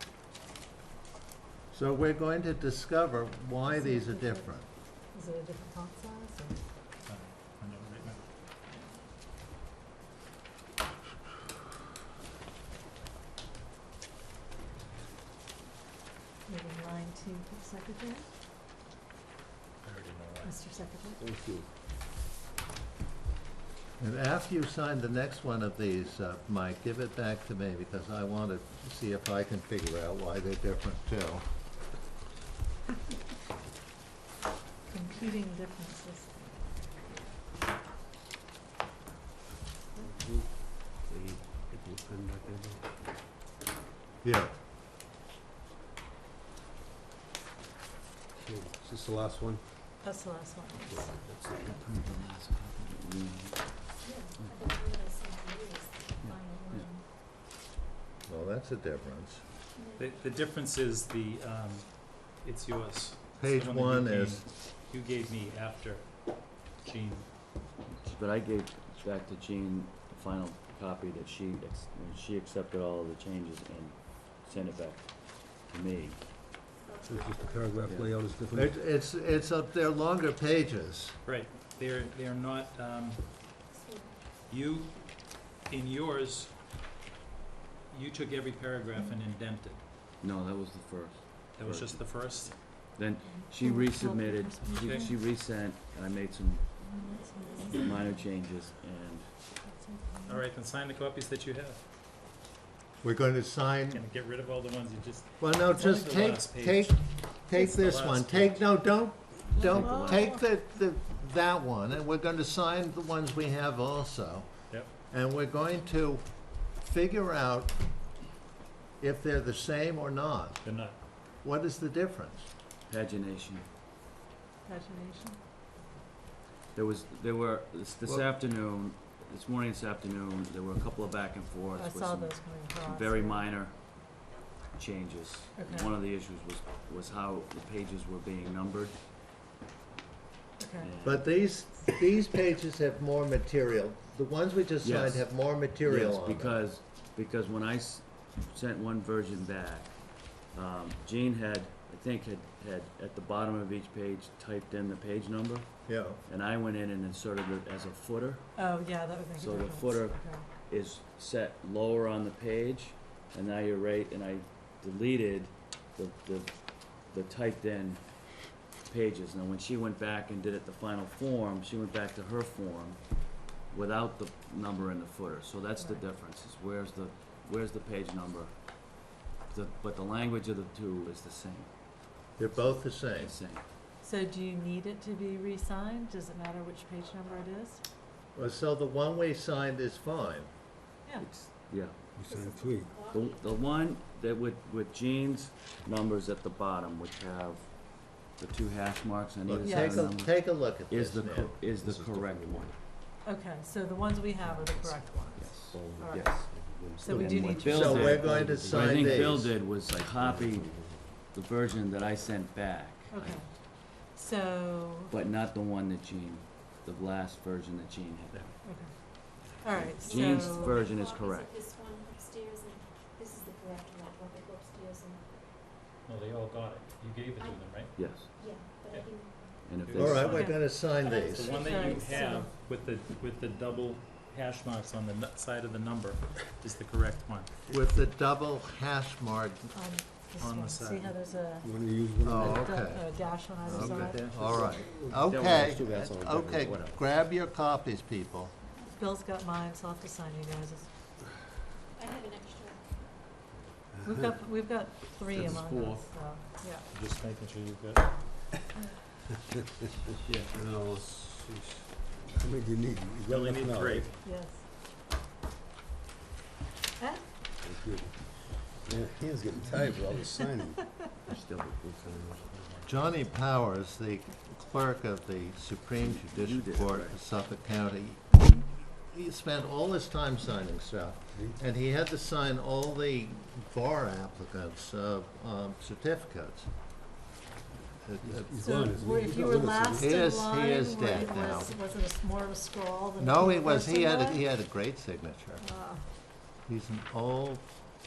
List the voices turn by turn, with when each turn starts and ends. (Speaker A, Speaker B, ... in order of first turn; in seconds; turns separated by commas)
Speaker A: 1.7-4.7, Speaker B: 3.7-4.5, Speaker B: 5.1-6.6, Speaker C: 7.1-8.2, Speaker B: 16.5-18.3, Speaker C: 19.8-20.6, Speaker B: 20.4-21.2, Speaker D: 21.2-21.7, Speaker A: 24.0-31.4, Speaker B: 34.9-36.6, Speaker D: 40.0-42.9, Speaker A: 44.2-44.5, Speaker D: 48.4-49.6, Speaker B: 50.0-51.1, Speaker D: 50.9-51.5, Speaker E: 51.5-54.6, Speaker F: 54.0-57.0, Speaker E: 56.2-56.9, Speaker A: 58.3-59.4, Speaker F: 59.8-60.4, Speaker C: 60.0-66.0, Speaker A: 63.4-64.4, Speaker C: 66.8-67.3, Speaker E: 67.9-76.2, Speaker F: 76.7-77.9, Speaker D: 77.0-78.8, Speaker E: 77.8-78.1, Speaker A: 78.5-81.2, Speaker C: 81.2-83.3, Speaker F: 83.7-84.2, Speaker C: 84.5-86.5, Speaker C: 87.9-89.8, Speaker E: 90.2-92.3, Speaker C: 91.5-92.6, Speaker E: 92.9-96.7, Speaker B: 93.3-95.1, Speaker C: 94.7-95.1, Speaker B: 96.8-98.0, Speaker E: 97.7-99.3, Speaker B: 99.6-100.4, Speaker C: 100.2-101.8, Speaker A: 103.0-104.0, Speaker C: 103.9-108.7, Speaker A: 105.4-117.7, Speaker E: 109.5-110.3, Speaker B: 109.6-110.4, Speaker A: 119.0-120.6, Speaker C: 120.6-121.0, Speaker A: 121.4-122.5, Speaker E: 122.9-123.6, Speaker B: 124.7-125.4, Speaker E: 126.7-139.0, Speaker B: 131.8-133.5, Speaker B: 135.6-135.9, Speaker B: 140.6-140.9, Speaker E: 140.8-141.3, Speaker A: 141.0-146.6, Speaker E: 144.8-158.8, Speaker A: 155.9-156.2, Speaker B: 158.6-160.5, Speaker E: 159.3-181.7, Speaker A: 182.4-183.4, Speaker E: 183.1-183.7, Speaker B: 184.0-187.8, Speaker A: 188.3-190.5, Speaker E: 191.2-192.0, Speaker D: 192.2-193.0, Speaker F: 192.2-193.6, Speaker E: 193.1-202.7, Speaker A: 199.5-201.6, Speaker B: 199.6-200.1, Speaker D: 201.7-202.8, Speaker B: 203.2-206.4, Speaker D: 204.6-204.8, Speaker E: 204.8-213.5, Speaker D: 205.5-211.1, Speaker B: 207.0-208.5, Speaker A: 207.1-209.6, Speaker B: 213.1-215.1, Speaker E: 215.1-218.7, Speaker B: 218.6-220.8, Speaker E: 219.7-221.5, Speaker F: 220.0-225.5, Speaker C: 226.1-228.0, Speaker E: 227.9-228.3, Speaker F: 228.3-229.6, Speaker E: 229.6-230.5, Speaker C: 229.8-230.6, Speaker A: 230.0-231.6, Speaker B: 230.3-230.6, Speaker F: 231.0-232.5, Speaker C: 231.1-237.5, Speaker B: 231.6-232.5, Speaker A: 237.7-239.7, Speaker B: 239.7-241.7, Speaker C: 240.4-241.2, Speaker D: 241.6-242.7, Speaker A: 242.2-248.5, Speaker B: 242.4-244.2, Speaker C: 243.8-244.6, Speaker D: 244.4-245.3, Speaker E: 245.3-247.0, Speaker B: 248.9-250.9, Speaker F: 252.0-253.0, Speaker B: 254.0-256.9, Speaker E: 255.3-256.1, Speaker C: 256.9-258.1, Speaker C: 260.2-260.5, Speaker D: 260.4-264.1, Speaker C: 263.3-264.2, Speaker B: 264.2-264.6, Speaker D: 267.6-271.0, Speaker E: 271.2-272.4, Speaker D: 272.0-272.8, Speaker A: 272.9-286.7, Speaker E: 275.9-277.2, Speaker D: 281.3-281.6, Speaker A: 288.0-288.8, Speaker D: 288.2-290.1, Speaker B: 288.6-294.4, Speaker A: 290.0-291.8, Speaker A: 293.2-295.6, Speaker B: 295.6-296.0, Speaker A: 296.7-297.7